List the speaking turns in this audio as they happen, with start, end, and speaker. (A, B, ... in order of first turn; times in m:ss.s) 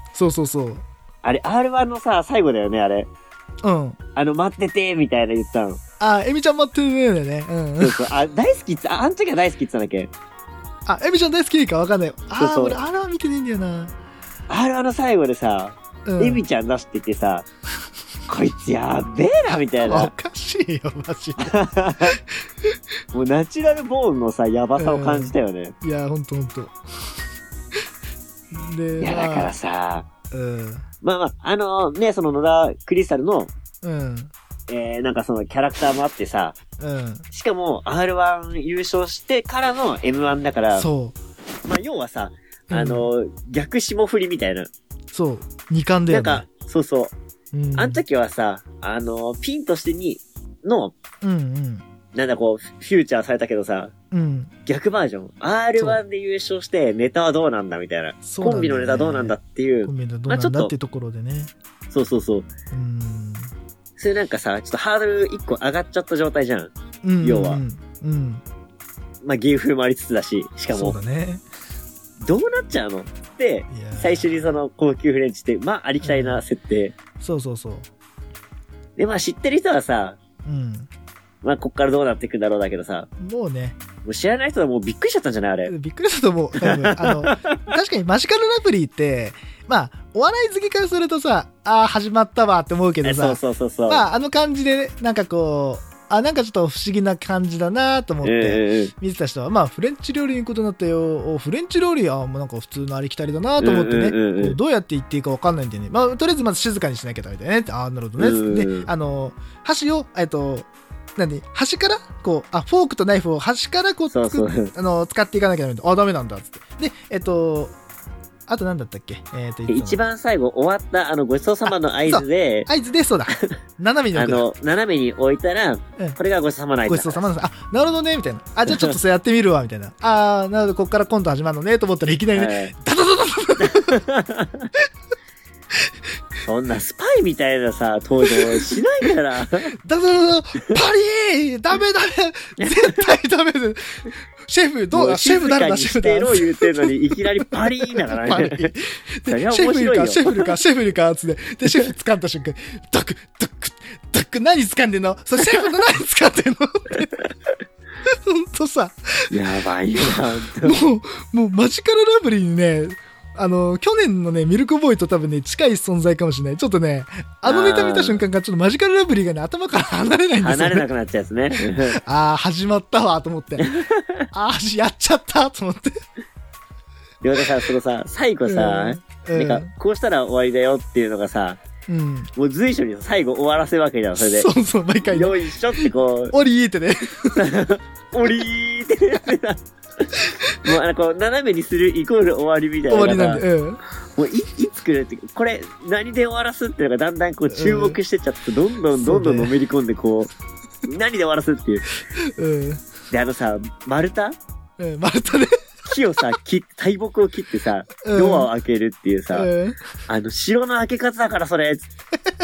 0:00.1-0:00.8 A
0:01.2-0:03.1 B
0:03.6-0:04.0 A
0:04.2-0:05.8 B
0:06.0-0:08.1 A
0:07.8-0:10.1 B
0:10.9-0:13.9 A
0:12.4-0:12.8 B
0:14.5-0:17.5 B
0:16.1-0:16.4 A
0:18.3-0:20.1 B
0:19.8-0:21.6 A
0:21.4-0:22.2 B
0:22.1-0:22.8 A
0:23.1-0:25.8 B
0:24.8-0:27.1 A
0:28.5-0:29.5 A
0:29.0-0:30.1 B
0:30.3-0:30.9 A
0:31.0-0:33.5 B
0:33.8-0:34.3 A
0:34.7-0:36.6 B
0:36.8-0:37.3 A
0:37.3-0:40.9 B
0:40.8-0:41.2 A
0:41.6-0:44.7 B
0:42.7-0:43.1 A
0:45.1-0:46.5 A
0:46.1-0:47.1 B
0:47.5-0:48.0 A
0:47.8-0:51.0 B
0:51.2-0:51.8 A
0:52.1-0:53.9 B
0:54.1-0:54.5 A
0:54.7-1:00.7 B
0:58.2-1:01.5 A
1:01.9-1:02.5 B
1:02.7-1:03.5 A
1:04.0-1:06.7 B
1:07.0-1:08.4 A
1:07.2-1:07.6 B
1:09.2-1:11.0 B
1:10.7-1:11.4 A
1:12.2-1:16.9 B
1:13.7-1:14.5 A
1:16.0-1:16.4 A
1:17.2-1:17.9 A
1:19.0-1:20.2 B
1:20.4-1:20.9 A
1:21.4-1:23.1 B
1:23.2-1:23.8 A
1:24.0-1:25.7 B
1:25.7-1:57.8 A
1:26.6-1:27.7 B
1:33.0-1:34.0 B
1:38.2-1:38.9 B
1:43.6-1:44.6 B
1:48.2-1:48.9 B
1:54.1-1:54.7 B
1:58.5-2:00.0 A
1:59.7-2:02.7 B
2:01.7-2:04.5 A
2:03.3-2:03.6 B
2:04.1-2:07.3 B
2:06.9-2:14.0 A
2:08.7-2:09.0 B
2:12.3-2:12.7 B
2:13.6-2:14.7 B
2:16.4-2:19.7 B
2:18.2-2:18.8 A
2:19.8-2:37.2 A
2:22.6-2:23.1 B
2:24.9-2:28.7 B
2:29.3-2:30.5 B
2:38.0-2:39.3 A
2:39.3-2:40.8 B
2:40.0-2:50.9 A
2:47.4-2:48.2 B
2:50.4-2:52.0 B
2:51.7-2:53.7 A
2:53.6-2:54.3 B
2:54.3-2:56.0 A
2:57.2-3:01.6 B
2:58.5-2:59.7 A
3:01.9-3:02.3 A
3:02.4-3:04.5 B
3:04.2-3:07.5 A
3:05.1-3:06.4 B
3:07.3-3:09.6 B
3:10.1-3:10.6 A
3:10.6-3:13.4 B
3:12.9-3:13.8 A
3:14.2-3:20.3 B
3:17.5-3:18.0 A
3:19.0-3:19.5 A
3:20.8-3:21.9 B
3:22.2-3:22.9 A
3:23.1-3:24.4 B
3:24.8-3:25.6 A
3:25.9-3:29.5 B
3:28.0-3:28.5 A
3:29.3-3:29.9 A
3:30.1-3:31.9 B